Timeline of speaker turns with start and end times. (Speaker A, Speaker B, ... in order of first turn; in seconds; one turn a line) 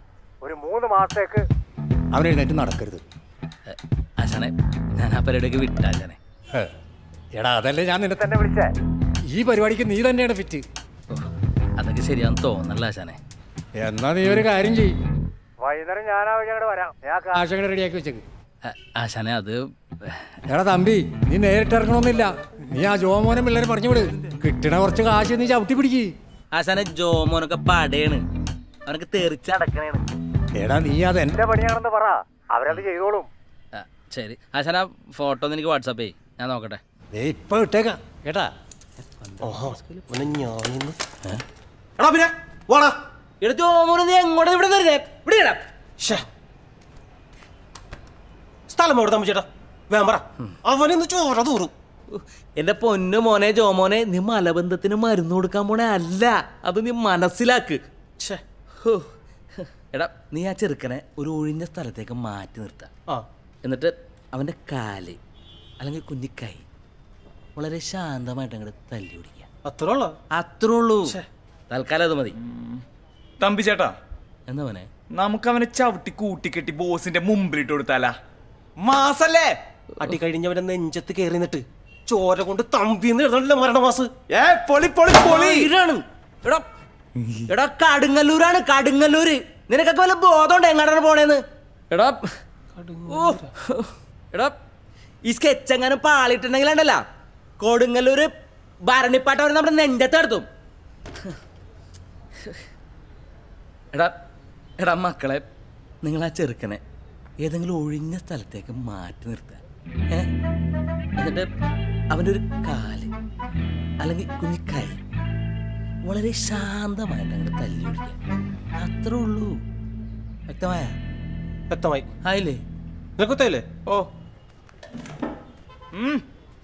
Speaker A: 0.4-1.4
Speaker B: 2.1-3.0
Speaker C: 3.7-6.2
Speaker B: 7.4-8.2
Speaker A: 8.2-8.7
Speaker B: 9.3-10.6
Speaker C: 11.8-13.2
Speaker B: 13.8-14.9
Speaker A: 15.6-17.4
Speaker B: 17.3-18.2
Speaker C: 18.6-20.3
Speaker B: 20.5-26.1
Speaker C: 26.5-28.2
Speaker C: 28.9-29.7
Speaker B: 30.6-31.4
Speaker A: 31.4-33.3
Speaker C: 33.7-36.8
Speaker B: 37.1-38.0
Speaker C: 39.0-40.5
Speaker D: 39.4-41.0
Speaker D: 42.0-42.9
Speaker C: 43.4-45.6
Speaker D: 48.7-51.7
Speaker C: 52.1-57.8
Speaker C: 58.8-59.1
Speaker C: 59.9-62.9
Speaker C: 63.6-65.2
Speaker C: 65.8-66.7
Speaker C: 67.6-69.5
Speaker D: 69.7-70.1
Speaker C: 70.3-71.2
Speaker C: 71.7-72.3
Speaker E: 73.4-73.9
Speaker C: 74.5-74.9
Speaker E: 75.2-78.1
Speaker D: 80.0-84.1
Speaker C: 85.2-86.7
Speaker C: 87.5-92.2
Speaker D: 92.8-93.5
Speaker C: 93.1-94.5
Speaker C: 95.2-97.0
Speaker C: 97.6-98.3
Speaker C: 98.8-100.5
Speaker C: 104.8-105.5
Speaker C: 106.0-106.8
Speaker C: 107.4-109.6
Speaker C: 111.2-111.5
Speaker C: 112.1-113.1
Speaker C: 114.0-115.0
Speaker C: 116.1-118.2
Speaker C: 118.8-119.5
Speaker C: 120.5-120.9
Speaker D: 121.7-122.0
Speaker C: 122.2-122.6
Speaker D: 123.2-123.7